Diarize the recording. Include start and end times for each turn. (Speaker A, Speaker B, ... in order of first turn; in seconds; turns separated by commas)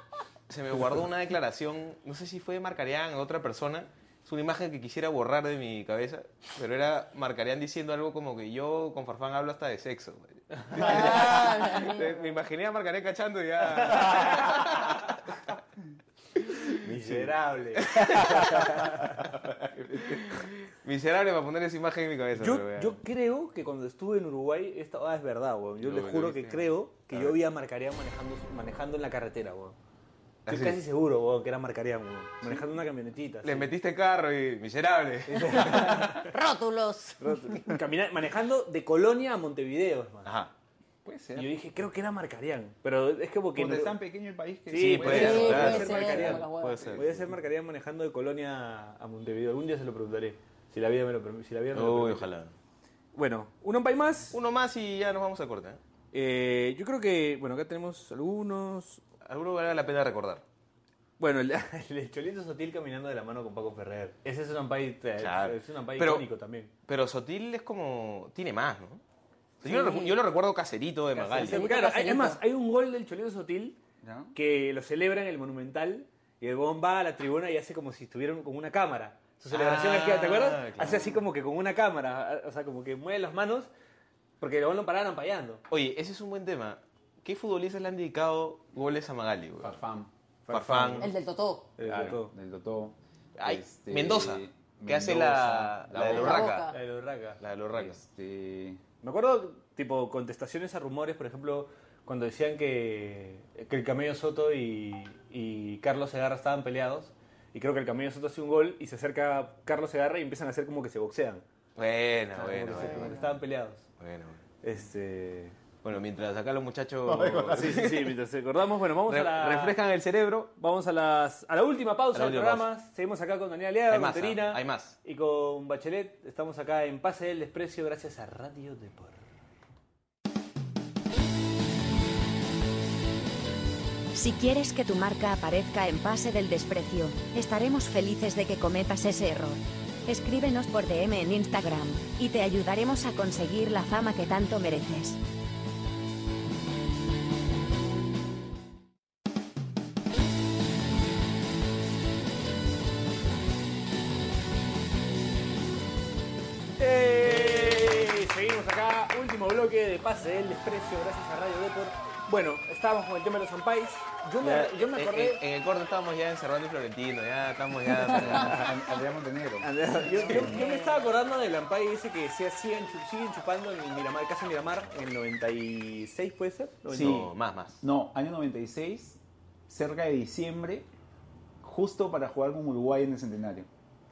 Speaker A: 0.5-15.5, Speaker B: 10.6-11.2, Speaker C: 10.7-12.3, Speaker B: 13.8-14.6, Speaker A: 16.4-18.9, Speaker B: 16.8-19.1, Speaker D: 19.4-20.4, Speaker A: 19.9-23.0, Speaker B: 22.4-29.8, Speaker A: 25.8-27.4, Speaker A: 30.4-30.8, Speaker B: 30.5-33.7, Speaker A: 33.4-36.2, Speaker B: 35.3-36.3, Speaker C: 36.2-37.6, Speaker B: 37.2-40.3, Speaker A: 40.2-40.5, Speaker D: 41.0-41.5, Speaker B: 41.4-44.0, Speaker D: 43.5-46.4, Speaker B: 44.7-52.2, Speaker A: 44.7-47.3, Speaker C: 45.0-47.0, Speaker A: 51.7-52.5, Speaker B: 53.1-54.4, Speaker A: 54.3-55.8, Speaker B: 56.1-59.0, Speaker A: 59.2-60.4, Speaker B: 61.2-66.7, Speaker A: 65.2-66.3, Speaker A: 66.9-69.0, Speaker A: 69.6-71.6, Speaker C: 69.6-70.2, Speaker B: 71.1-73.8, Speaker C: 71.3-72.4, Speaker D: 74.0-74.3, Speaker B: 74.3-83.7, Speaker A: 79.5-81.2, Speaker B: 84.4-85.6, Speaker A: 85.7-89.8, Speaker D: 89.6-90.1, Speaker B: 90.5-91.1, Speaker A: 90.5-91.1, Speaker C: 91.0-91.7, Speaker B: 91.8-92.3, Speaker D: 91.8-96.5, Speaker A: 93.4-96.7, Speaker C: 96.0-96.8, Speaker B: 96.2-97.4, Speaker A: 97.4-98.0, Speaker D: 97.7-98.8, Speaker B: 99.0-111.4, Speaker A: 111.8-113.2, Speaker B: 112.4-113.8, Speaker D: 112.6-113.0, Speaker C: 112.8-113.2, Speaker A: 114.0-114.4, Speaker B: 114.6-115.5, Speaker A: 115.8-118.1, Speaker D: 117.1-117.8, Speaker B: 117.2-119.8, Speaker A: 119.0-120.5, Speaker B: 120.5-129.2, Speaker A: 122.1-122.7, Speaker A: 123.9-125.0, Speaker E: 134.1-145.2, Speaker B: 156.8-165.4, Speaker A: 164.4-168.7, Speaker B: 168.1-168.7, Speaker D: 168.1-170.6, Speaker B: 169.6-177.2, Speaker C: 170.0-171.1, Speaker D: 176.9-180.9, Speaker A: 176.9-177.8, Speaker D: 181.6-183.7